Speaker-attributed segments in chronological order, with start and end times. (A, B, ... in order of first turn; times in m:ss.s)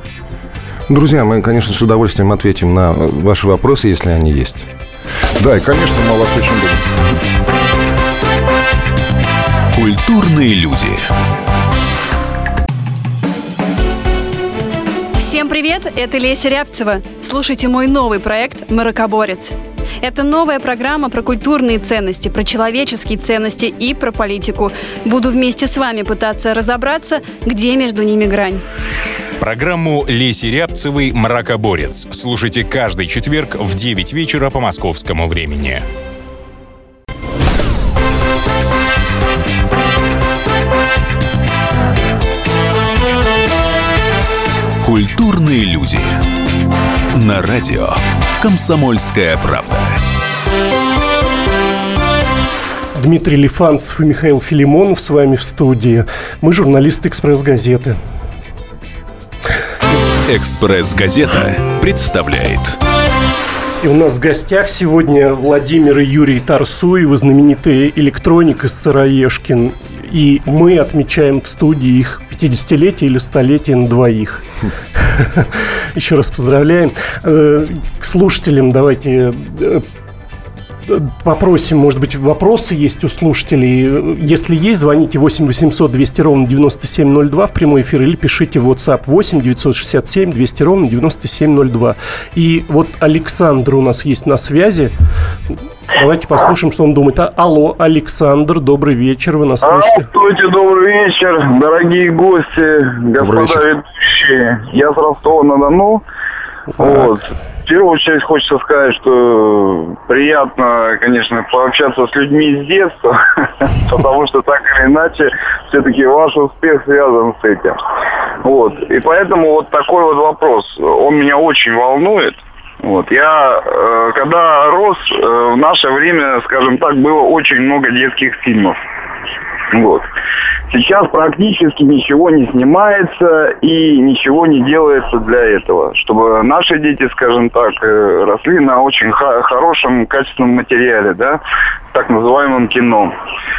0:00.9-0:04.7 A
0:05.4-0:06.9 B
0:09.7-0:11.1 C
0:15.2-0:28.6 D
0:29.4-0:35.8 E
0:44.8-0:46.2 C
0:47.1-0:50.0 C
0:53.0-0:58.0 F
1:00.3-1:02.8 C
1:03.8-1:14.4 F
1:15.0-1:19.8 F
1:20.9-1:34.9 F
1:35.9-1:40.1 F
1:39.6-1:46.0 G
1:43.2-1:43.6 B
1:46.8-1:57.8 G
1:58.4-2:08.8 G
2:09.7-2:10.0 G
2:10.7-2:21.4 G
2:21.9-2:23.1 G